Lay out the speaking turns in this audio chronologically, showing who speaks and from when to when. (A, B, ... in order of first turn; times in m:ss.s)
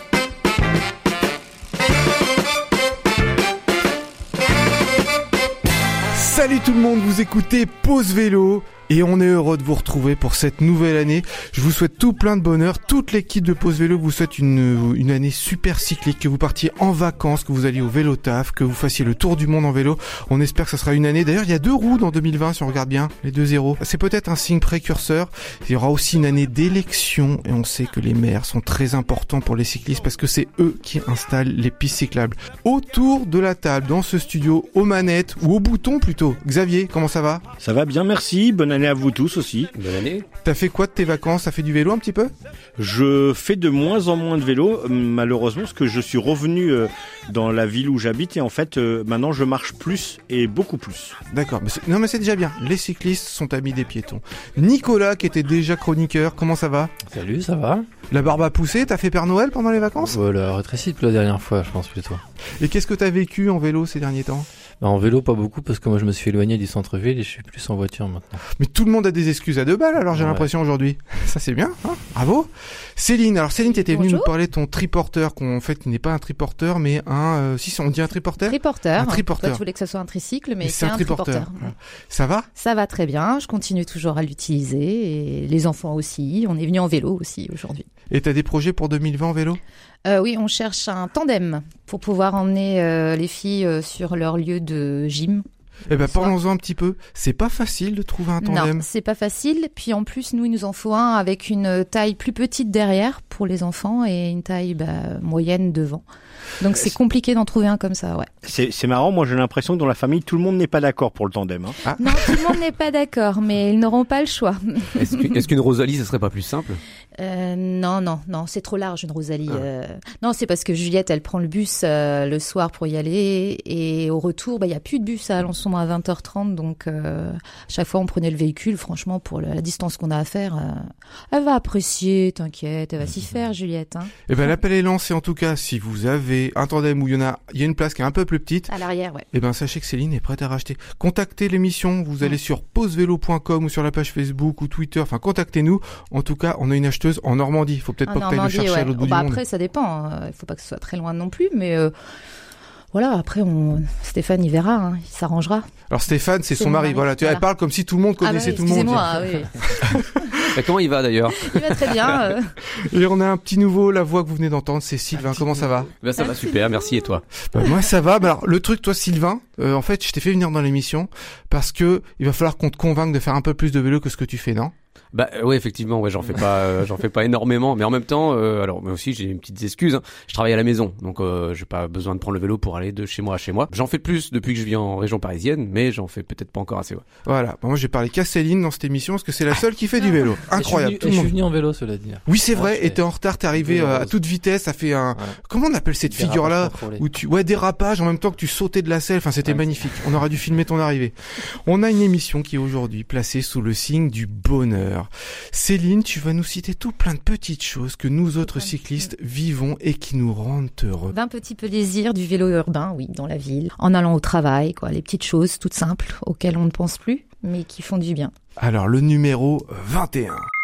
0:06.1-0:37.4 A
0:37.6-0:39.7 B
0:39.8-0:40.2 C
0:40.4-0:42.3 A
0:42.8-0:51.2 B
0:51.3-0:56.9 A
0:57.0-0:57.9 D
0:58.1-1:00.2 A
1:00.0-1:02.2 D
1:02.6-1:04.5 A
1:04.8-1:08.4 D
1:08.6-1:19.6 A
1:10.1-1:10.5 D
1:13.7-1:14.3 E
1:18.4-1:21.7 E
1:20.6-1:22.5 A
1:22.6-1:27.8 E
1:28.1-1:29.6 A
1:30.0-1:35.4 E
1:35.9-1:38.8 A
1:36.0-1:36.3 E
1:38.4-1:46.0 E
1:46.6-1:48.3 E
1:48.4-1:51.8 B
1:51.8-1:52.4 A
1:52.0-1:55.4 E
1:55.0-1:56.8 C
1:57.2-2:14.1 E
2:14.3-2:18.7 A
2:18.7-2:19.2 E
2:19.3-2:29.4 A
2:28.1-2:31.9 E
2:32.9-2:35.7 E
2:35.9-2:40.5 A
2:36.5-2:37.4 E
2:38.2-2:40.4 E
2:40.5-2:42.2 C
2:41.4-2:42.5 E
2:42.7-2:45.9 A
2:46.0-2:47.2 C
2:46.2-2:46.8 E
2:47.5-2:54.7 A
2:55.1-3:07.0 C
3:07.2-3:11.3 A
3:10.5-3:14.2 D
3:12.3-3:31.1 A
3:15.1-3:15.4 D
3:16.0-3:17.0 D
3:19.4-3:19.9 D
3:31.1-3:38.3 E
3:38.6-3:40.5 A